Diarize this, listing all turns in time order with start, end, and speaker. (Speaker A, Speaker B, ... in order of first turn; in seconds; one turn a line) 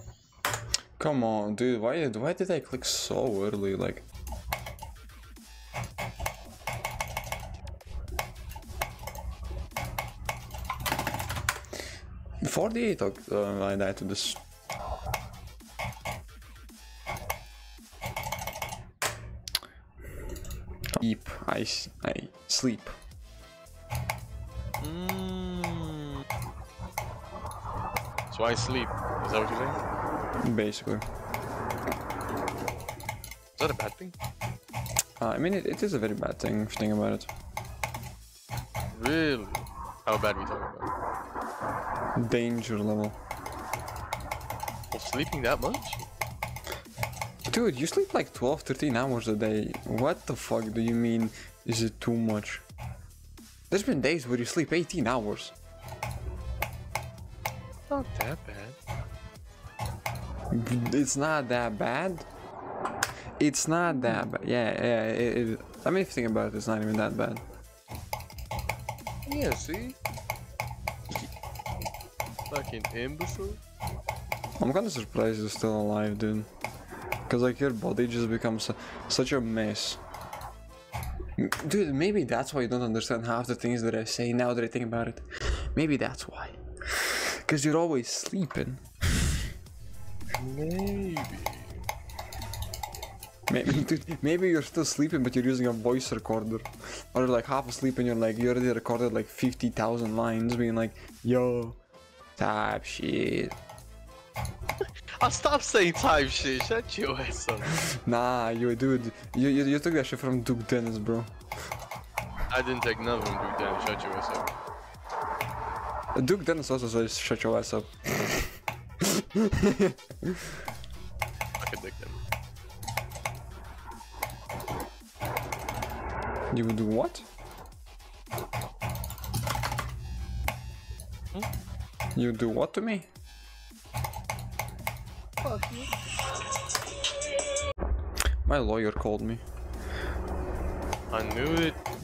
Speaker A: 1.0-4.1
Speaker A: 12.4-14.4
Speaker A: 21.0-23.0
Speaker B: 24.8-26.2
Speaker B: 28.3-29.8
Speaker A: 30.4-31.1
Speaker B: 33.6-34.1
Speaker A: 35.2-37.3
Speaker B: 38.9-40.9
Speaker A: 42.2-43.2
Speaker B: 44.9-46.1
Speaker A: 47.5-52.6
Speaker A: 53.7-55.5
Speaker B: 57.9-58.8
Speaker A: 60.5-62.3
Speaker A: 63.4-67.4
Speaker B: 69.3-70.0
Speaker B: 72.5-73.6
Speaker A: 74.6-76.5
Speaker A: 77.3-80.0
Speaker A: 81.4-88.8
Speaker B: 90.4-91.8
Speaker A: 93.5-101.8
Speaker A: 102.4-103.5
Speaker B: 105.2-107.7
Speaker A: 107.9-111.3
Speaker B: 112.5-114.5
Speaker A: 116.2-120.5
Speaker B: 121.6-122.2
Speaker A: 126.5-127.3
Speaker A: 132.2-133.1
Speaker B: 135.4-135.9
Speaker A: 138.4-139.4
Speaker B: 141.1-141.8